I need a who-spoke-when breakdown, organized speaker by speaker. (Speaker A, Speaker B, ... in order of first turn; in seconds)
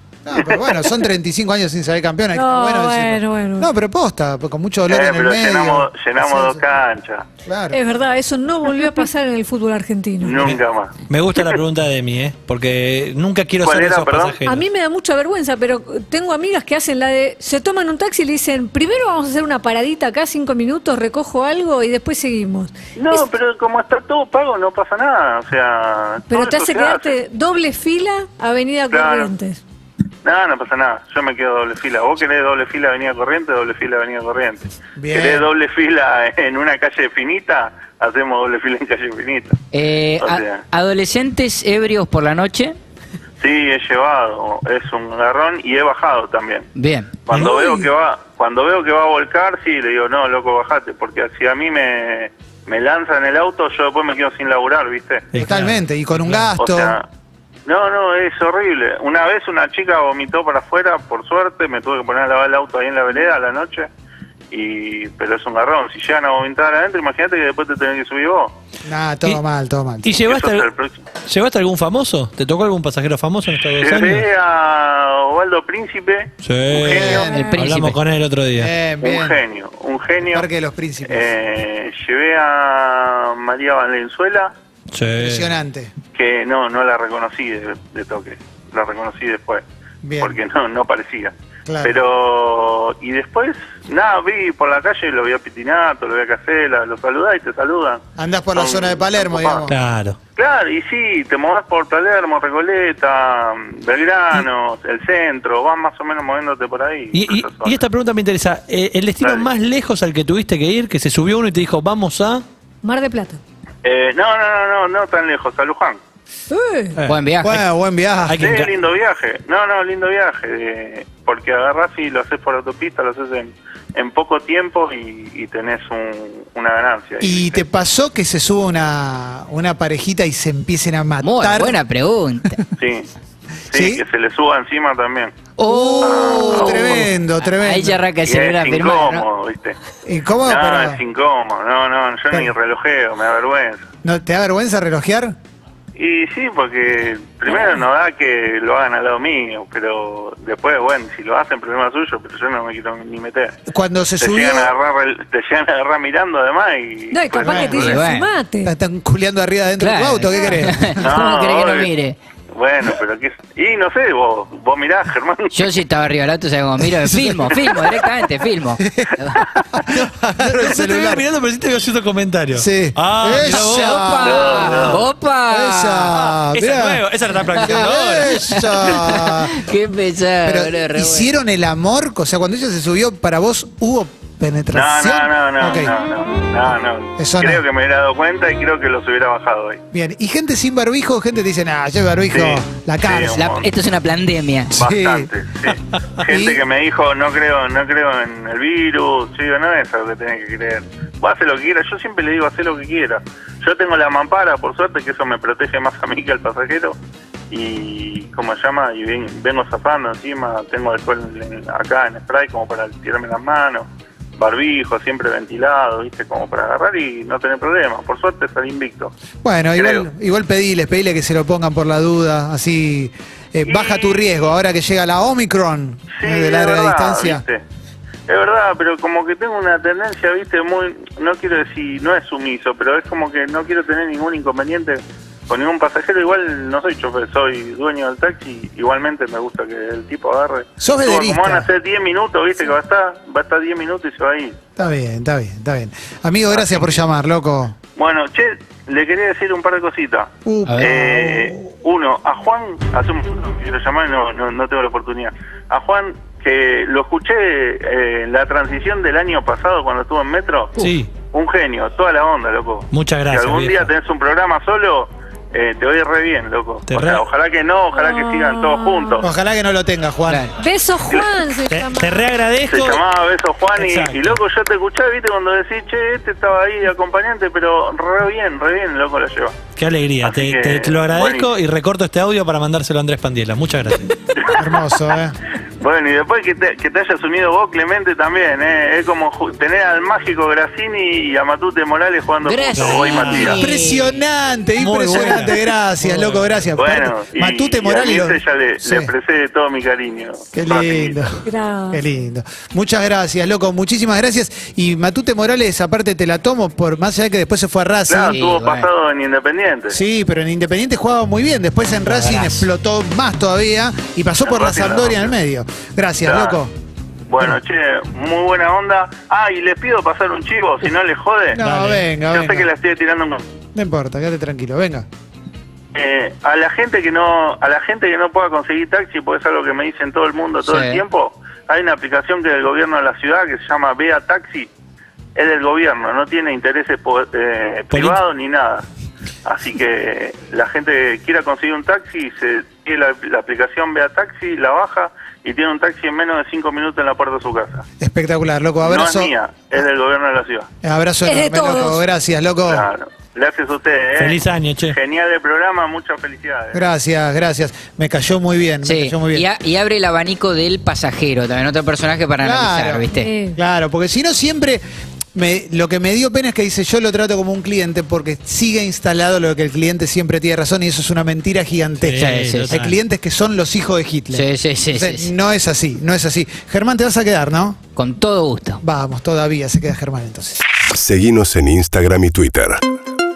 Speaker A: 0.2-6.6, 7.4-7.8, 35.0-35.5, 55.3-56.9, 68.8-70.1, 76.7-77.5, 78.5-79.4, 80.2-81.3, 85.2-85.9, 90.0-90.4, 91.7-92.0, 98.2-99.8, 117.4-118.5, 127.2-131.8, 133.7-134.0, 135.6-138.0, 140.0-141.0, 144.0-145.3, 153.7-154.7, 157.4-158.0, 158.6-161.0, 167.0-167.8, 168.8-171.2, 172.5-174.9, 175.5-179.6, 180.4-185.9, 187.2-187.6, 189.9-193.5, 194.7-195.3, 196.2-196.6, 219.4-227.4, 240.8-241.7, 244.8-247.8, 250.4-251.7, 269.2-270.4, 284.5-285.4, 293.6-299.1, 300.5-308.3, 309.9-316.7, 321.6-322.7, 323.7-325.1, 348.0-349.3, 350.8-352.9, 356.7-359.5, 362.4-364.8, 365.3-377.8, 378.8-380.6
Speaker B: 0.3-0.8, 4.9-7.2, 10.2-11.6, 13.6-14.4, 22.9-27.1, 28.9-29.3, 30.2-39.5, 40.2-40.6, 43.4-46.7, 47.2-55.2, 56.6-57.0, 57.7-63.9, 64.5-68.5, 70.2-71.0, 73.7-77.0, 79.0-80.5, 81.1-84.5, 86.1-89.6, 90.2-98.0, 98.5-99.6, 100.4-107.8, 109.2-109.5, 113.8-116.0, 118.4-127.6, 132.8-133.1, 133.7-135.3, 136.0-136.9, 138.2-139.8, 140.4-143.8, 145.9-153.5, 154.2-157.9, 161.0-161.9, 162.5-165.7, 174.2-175.0, 184.7-189.8, 192.3-193.7, 194.8-206.9, 207.5-213.8, 214.4-219.1, 219.8-220.0, 223.6-224.2, 226.1-227.6, 228.3-244.6, 246.5-247.0, 247.9-269.2, 272.7-279.6, 280.2-281.5, 284.4-284.8, 285.8-293.6, 296.8-301.3, 308.1-310.0, 314.4-315.3, 316.2-316.6, 317.3-321.6, 322.2-323.4, 325.9-334.7, 335.4-338.8, 339.4-347.8, 348.8-350.7, 352.6-356.8
Speaker C: 2.3-3.7, 7.7-10.4, 14.4-23.2, 26.3-29.6, 77.0-77.5, 112.8-113.4, 116.5-116.9, 147.5-147.8, 157.1-158.7, 267.9-269.2, 270.5-272.3, 301.4-302.0, 351.2-352.0, 363.1-363.6
Speaker D: 10.4-14.6, 47.3-47.5, 55.3-56.5, 70.0-70.7, 71.2-74.2, 76.4-78.7, 84.9-85.5, 99.7-100.2, 107.1-112.4, 118.3-118.7, 169.9-175.0, 176.1-178.6, 260.8-261.1, 262.9-263.9, 266.9-267.2, 271.7-273.0, 273.8-274.4, 279.8-284.1, 292.8-293.6, 294.8-296.7, 337.9-338.2, 354.2-354.9, 372.0-372.9
Speaker E: 39.7-42.8, 46.8-47.1, 77.2-78.0, 117.0-117.6, 131.2-132.6, 135.6-139.2, 157.6-158.3, 159.8-162.2, 165.5-169.5, 173.3-176.1, 178.5-181.3, 193.2-194.8, 250.7-250.9, 292.4-294.2, 308.2-308.9, 312.1-312.6, 321.6-322.0, 330.6-331.0, 358.8-363.3, 372.1-372.8, 374.3-375.3, 378.0-378.8
Speaker F: 380.9-382.8